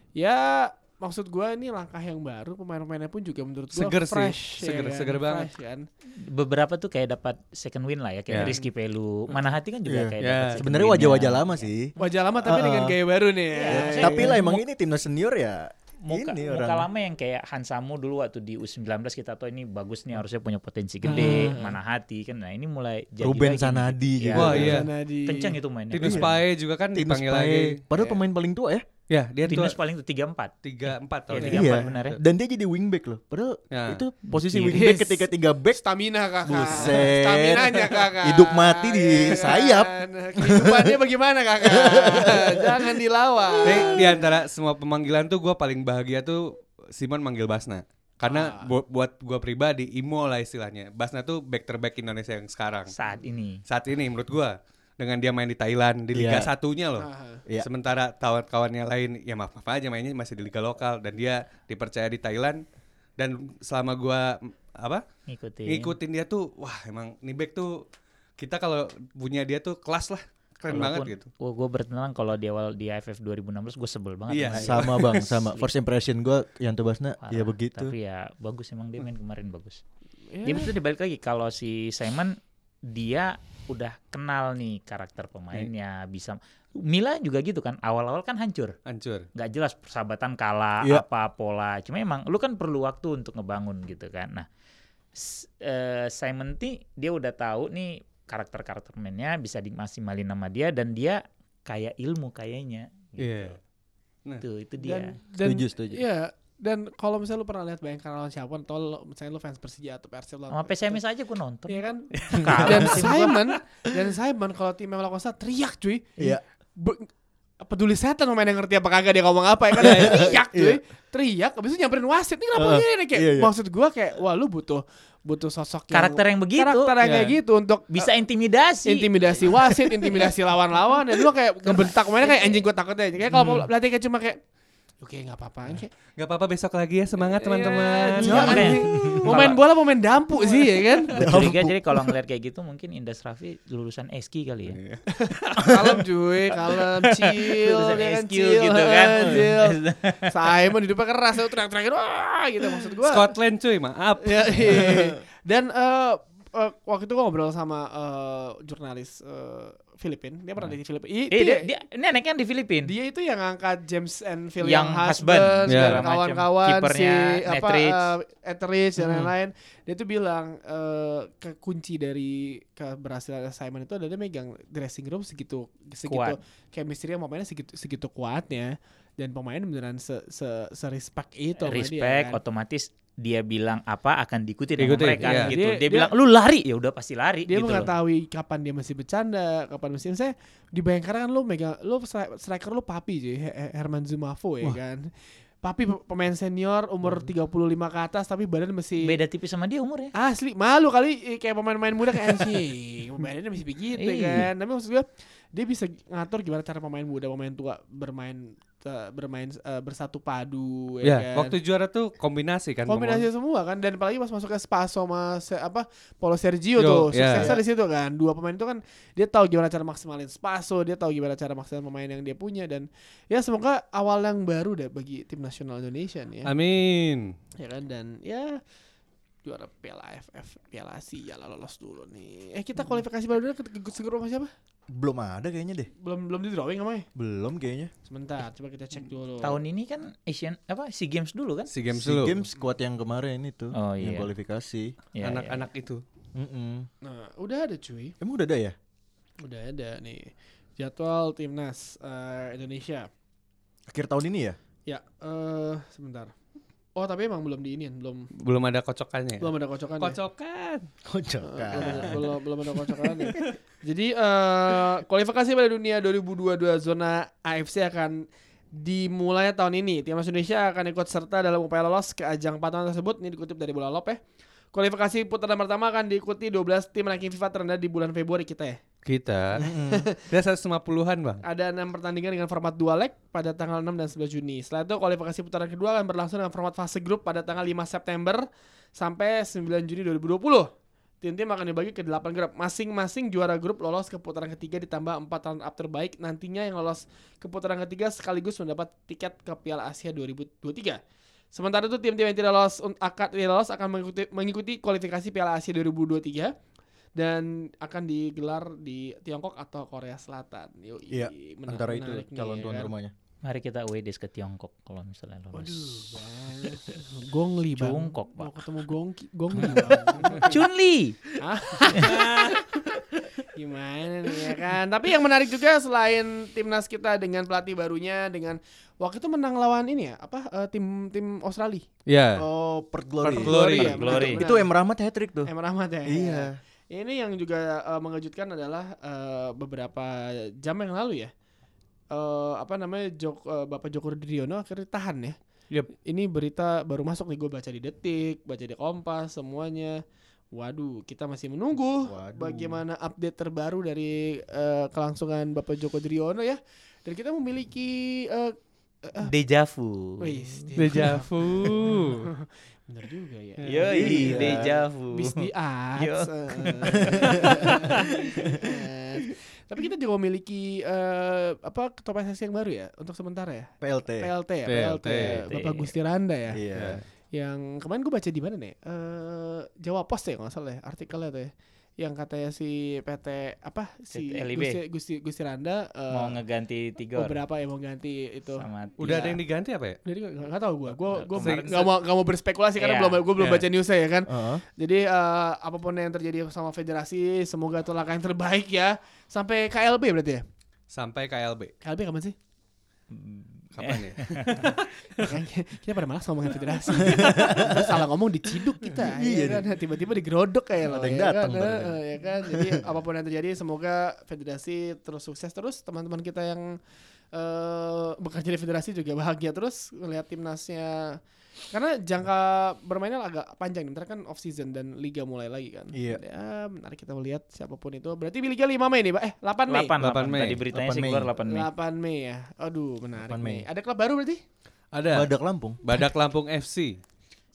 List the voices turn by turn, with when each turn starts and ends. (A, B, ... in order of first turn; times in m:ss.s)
0:00.2-0:05.9 A
0:03.7-0:05.5 B
0:06.1-0:11.7 C
0:08.3-0:08.6 B
0:08.4-0:08.7 A
0:09.9-0:13.0 D
0:10.2-0:10.6 B
0:12.0-0:14.4 A
0:13.5-0:14.6 C
0:13.7-0:16.9 D
0:16.0-0:26.4 C
0:21.0-0:21.8 A
0:21.1-0:21.5 D
0:23.2-0:24.8 D
0:24.4-0:24.9 B
0:24.5-0:25.6 A
0:25.9-0:27.8 B
0:26.0-0:26.3 D
0:26.9-0:28.8 D
0:29.1-0:29.8 B
0:29.4-0:32.2 C
0:30.6-0:32.2 B
0:31.4-0:31.7 A
0:31.4-0:35.8 D
0:33.7-0:34.0 B
0:34.3-0:34.9 C
0:34.7-0:44.3 A
0:36.4-0:41.0 D
0:41.6-0:43.0 D
0:43.6-0:52.9 B
0:48.2-0:48.7 A
0:52.9-0:53.6 C
0:53.7-1:02.6 B
0:56.1-0:56.5 D
0:57.0-0:57.4 A
1:03.2-1:05.0 B
1:05.3-1:06.0 C
1:05.7-1:07.8 B
1:08.4-1:11.3 B
1:10.7-1:15.7 C
1:14.3-1:15.3 B
1:14.6-1:17.9 D
1:17.2-1:19.8 C
1:20.3-1:20.7 A
1:20.4-1:28.8 C
1:28.9-1:29.3 B
1:29.4-1:34.5 C
1:35.2-1:43.6 C
1:43.2-1:43.6 B
1:44.4-1:45.2 C
1:44.8-1:51.0 A
1:45.4-1:46.0 D
1:50.5-1:53.4 C
1:51.7-1:57.1 A
1:52.1-1:52.8 B
1:52.5-1:53.0 D
1:57.6-2:08.1 A
1:59.8-2:00.8 D
2:02.6-2:03.5 D
2:05.9-2:06.9 C
2:07.0-2:07.4 B
2:07.9-2:09.5 C
2:08.8-2:14.4 A
2:11.7-2:12.6 C
2:13.3-2:13.6 D
2:15.0-2:15.9 A
2:16.2-2:19.5 B
2:17.2-2:21.2 A
2:18.2-2:19.6 C
2:18.3-2:19.3 D
2:20.4-2:21.1 B
2:21.1-2:22.1 D
2:21.1-2:24.8 C
2:24.7-2:25.0 B
2:25.1-2:33.3 A
2:25.6-2:25.9 D
2:27.1-2:30.5 C
2:29.2-2:29.5 D
2:33.0-2:34.8 B
2:34.2-2:41.7 A
2:34.6-2:35.2 D
2:41.3-2:42.9 C
2:42.8-3:02.4 A
2:44.6-2:48.1 C
2:45.7-2:46.0 B
2:49.0-2:49.3 D
2:56.0-2:56.4 C
3:01.6-3:07.9 C
3:04.8-3:05.5 B
3:05.2-3:06.1 A
3:07.5-3:19.2 A
3:19.0-3:20.1 C
3:20.2-3:31.6 A
3:24.0-3:24.5 C
3:31.0-3:33.3 B
3:32.9-3:46.5 A
3:36.8-3:37.5 B
3:46.4-3:47.4 B
3:47.6-3:48.6 A
3:49.4-3:54.5 A
3:54.9-3:55.9 D
3:56.0-3:57.1 A
3:57.2-3:57.9 D
3:58.1-3:59.6 A
3:59.4-4:01.7 C
4:01.7-4:02.4 B
4:01.9-4:05.0 D
4:03.7-4:04.3 C
4:05.2-4:05.7 C
4:05.2-4:06.0 B
4:06.4-4:06.9 D
4:07.0-4:08.2 A
4:08.2-4:08.8 D
4:09.4-4:13.1 A
4:13.9-4:14.6 D
4:14.9-4:16.3 A
4:17.0-4:18.3 A
4:18.4-4:20.9 B
4:19.4-4:20.2 A
4:21.1-4:23.5 D
4:21.4-4:34.2 A
4:21.7-4:22.2 B
4:34.7-4:38.8 A
4:39.1-4:39.7 B
4:39.6-4:40.1 D
4:39.9-4:40.1 A
4:40.2-4:41.4 B
4:41.4-5:01.0 A
5:01.5-5:06.6 A
5:07.2-5:12.9 A
5:11.1-5:13.1 D
5:13.4-5:16.2 C
5:15.5-5:20.6 A
5:17.8-5:18.6 C
5:19.6-5:21.2 C
5:20.2-5:20.5 B
5:21.4-5:31.9 A
5:22.0-5:22.6 B
5:32.1-5:32.4 B
5:32.4-5:35.5 D
5:33.2-5:34.1 B
5:33.3-5:34.7 A
5:33.7-5:34.4 C
5:35.5-5:41.3 A
5:36.1-5:36.6 D
5:42.1-5:45.4 A
5:46.0-5:59.3 A
5:52.0-5:52.8 D
5:59.2-6:00.7 C
6:00.2-6:16.6 A
6:00.8-6:02.3 B
6:03.6-6:03.9 B
6:03.6-6:08.0 C
6:03.9-6:04.7 D
6:07.0-6:08.7 D
6:13.8-6:14.3 D
6:14.7-6:15.4 B
6:15.2-6:15.9 C
6:16.5-6:17.0 D
6:16.7-6:17.0 B
6:17.3-6:26.4 A
6:24.1-6:24.8 C
6:26.1-6:27.4 C
6:27.2-6:29.4 A
6:28.6-6:29.2 C
6:29.0-6:30.0 B
6:30.1-6:40.4 A
6:31.1-6:31.8 C
6:31.4-6:31.9 B
6:32.8-6:33.3 C
6:33.4-6:33.7 B
6:34.3-6:34.6 D
6:40.9-6:41.7 B
6:41.8-6:42.4 A
6:43.1-6:44.7 C
6:43.7-6:45.4 B
6:45.2-6:56.8 A
6:47.0-6:48.0 D
6:48.9-6:49.7 D
6:50.8-6:52.9 D
6:57.3-7:01.2 A
7:01.7-7:09.9 A
7:05.9-7:06.2 D
7:09.7-7:11.7 C
7:10.0-7:10.6 B
7:10.7-7:11.3 D
7:11.5-7:14.4 A
7:13.2-7:13.7 D
7:14.9-7:15.3 B
7:15.1-7:16.0 D
7:15.8-7:17.0 B